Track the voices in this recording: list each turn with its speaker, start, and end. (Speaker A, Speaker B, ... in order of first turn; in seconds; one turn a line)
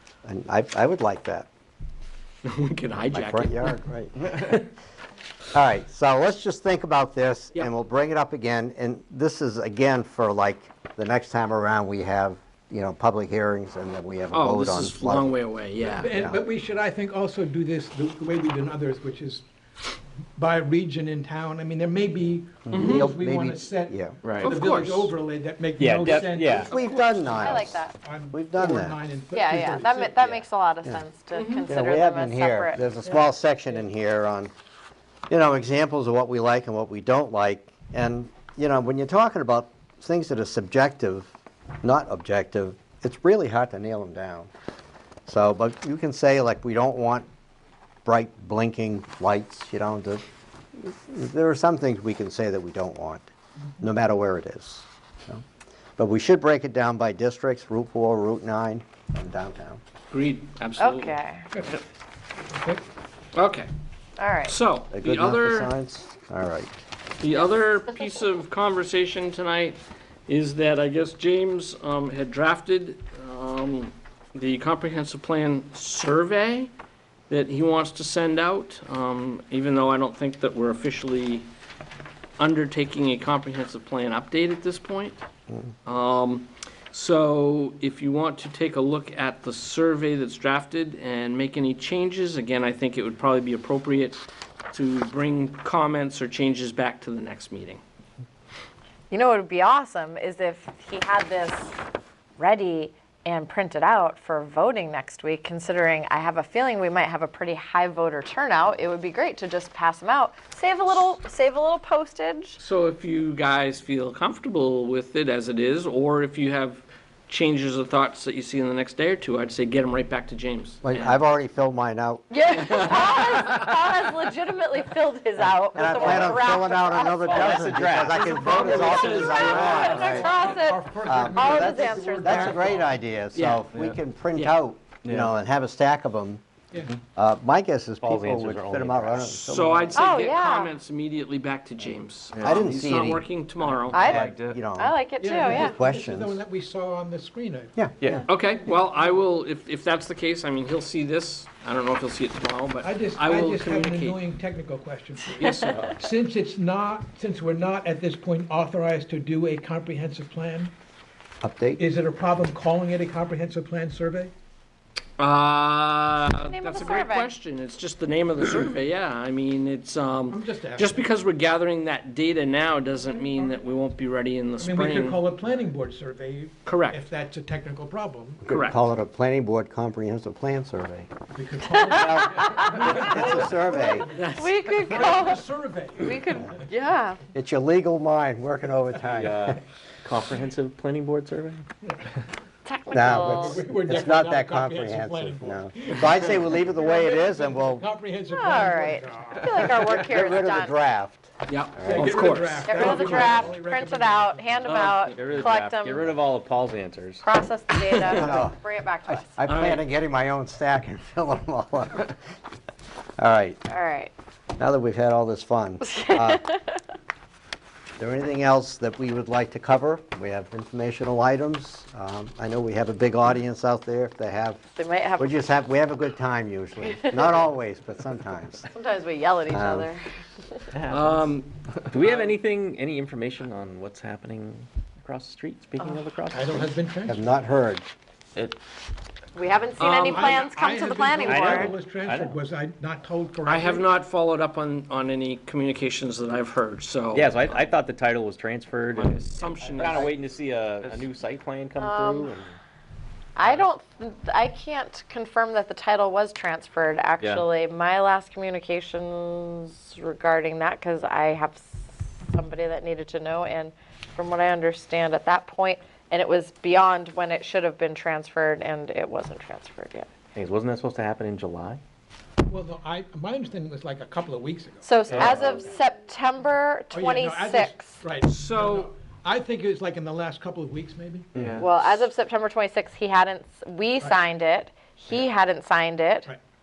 Speaker A: 0.2-1.5
Speaker B: 2.5-3.8
Speaker A: 3.1-4.7
Speaker A: 5.5-15.4
Speaker B: 14.3-16.1
Speaker C: 16.0-19.4
Speaker A: 16.1-16.4
Speaker C: 20.4-30.4
Speaker A: 22.7-24.2
Speaker B: 22.7-23.1
Speaker D: 24.2-24.6
Speaker B: 24.4-25.1
Speaker D: 25.8-26.7
Speaker A: 26.6-27.8
Speaker E: 27.3-27.9
Speaker A: 28.3-29.0
Speaker E: 29.3-32.8
Speaker A: 30.4-31.0
Speaker B: 31.3-31.7
Speaker A: 31.7-34.5
Speaker A: 35.3-41.3
Speaker A: 41.8-44.5
Speaker A: 45.3-47.3
Speaker A: 48.0-50.2
Speaker A: 50.8-55.4
Speaker A: 56.0-59.8
Speaker B: 60.1-61.2
Speaker E: 60.8-61.5
Speaker C: 61.5-61.8
Speaker C: 62.5-62.8
Speaker B: 63.4-63.7
Speaker E: 64.2-64.5
Speaker B: 64.5-65.7
Speaker A: 64.9-66.8
Speaker B: 67.2-76.7
Speaker B: 77.3-81.5
Speaker B: 82.4-85.2
Speaker B: 85.9-97.8
Speaker E: 99.1-101.8
Speaker E: 102.4-112.6
Speaker B: 112.6-121.2
Speaker A: 120.8-122.3
Speaker E: 122.3-132.8
Speaker A: 125.7-130.3
Speaker D: 125.9-129.0
Speaker B: 128.4-130.5
Speaker C: 130.2-133.0
Speaker A: 131.0-136.4
Speaker B: 133.3-133.6
Speaker D: 135.1-135.3
Speaker A: 137.2-140.0
Speaker D: 138.0-139.8
Speaker B: 139.5-144.0
Speaker E: 139.9-140.7
Speaker D: 142.3-142.7
Speaker A: 142.4-143.3
Speaker D: 143.6-144.6
Speaker E: 143.9-145.8
Speaker A: 144.0-146.4
Speaker C: 145.2-147.8
Speaker A: 147.8-148.2
Speaker B: 148.3-154.2
Speaker C: 152.8-160.7
Speaker B: 155.4-155.9
Speaker D: 155.6-156.0
Speaker A: 161.4-161.8
Speaker C: 161.8-164.3
Speaker B: 165.2-175.2
Speaker E: 166.5-167.4
Speaker C: 170.3-171.1
Speaker C: 174.6-178.4
Speaker B: 176.7-177.0
Speaker A: 178.4-181.1
Speaker B: 178.5-178.8
Speaker C: 181.3-186.5
Speaker E: 181.7-187.2
Speaker A: 181.9-184.1
Speaker B: 184.1-184.9
Speaker A: 187.3-189.6
Speaker D: 189.1-191.7
Speaker C: 191.8-192.1
Speaker E: 192.7-193.7
Speaker A: 192.9-197.8
Speaker C: 193.1-199.7
Speaker E: 198.3-200.8
Speaker A: 199.6-202.3
Speaker B: 201.5-203.4
Speaker C: 201.8-204.7
Speaker E: 202.6-206.1
Speaker B: 204.7-205.4
Speaker D: 204.7-207.2
Speaker E: 207.2-209.4
Speaker A: 208.1-212.1
Speaker B: 209.5-209.8
Speaker A: 213.2-213.6
Speaker E: 213.7-214.1
Speaker A: 214.6-216.5
Speaker E: 215.9-216.6
Speaker A: 218.0-224.6
Speaker E: 224.8-225.3
Speaker A: 225.2-228.7
Speaker E: 226.8-227.5
Speaker E: 228.7-230.7
Speaker A: 229.5-229.9
Speaker D: 230.8-231.2
Speaker B: 230.9-231.5
Speaker D: 231.9-236.8
Speaker C: 236.3-237.2
Speaker A: 237.1-237.9
Speaker E: 239.3-241.7
Speaker C: 239.8-243.9
Speaker D: 241.2-242.4
Speaker B: 243.5-247.6
Speaker D: 247.1-249.2
Speaker B: 248.9-250.2
Speaker D: 249.8-252.6
Speaker E: 251.8-252.3
Speaker E: 253.4-270.1
Speaker D: 270.4-271.8
Speaker C: 272.5-275.1
Speaker E: 274.8-278.0
Speaker D: 275.1-275.6
Speaker C: 276.9-281.3
Speaker B: 278.2-278.9
Speaker D: 281.4-281.7
Speaker E: 281.6-286.3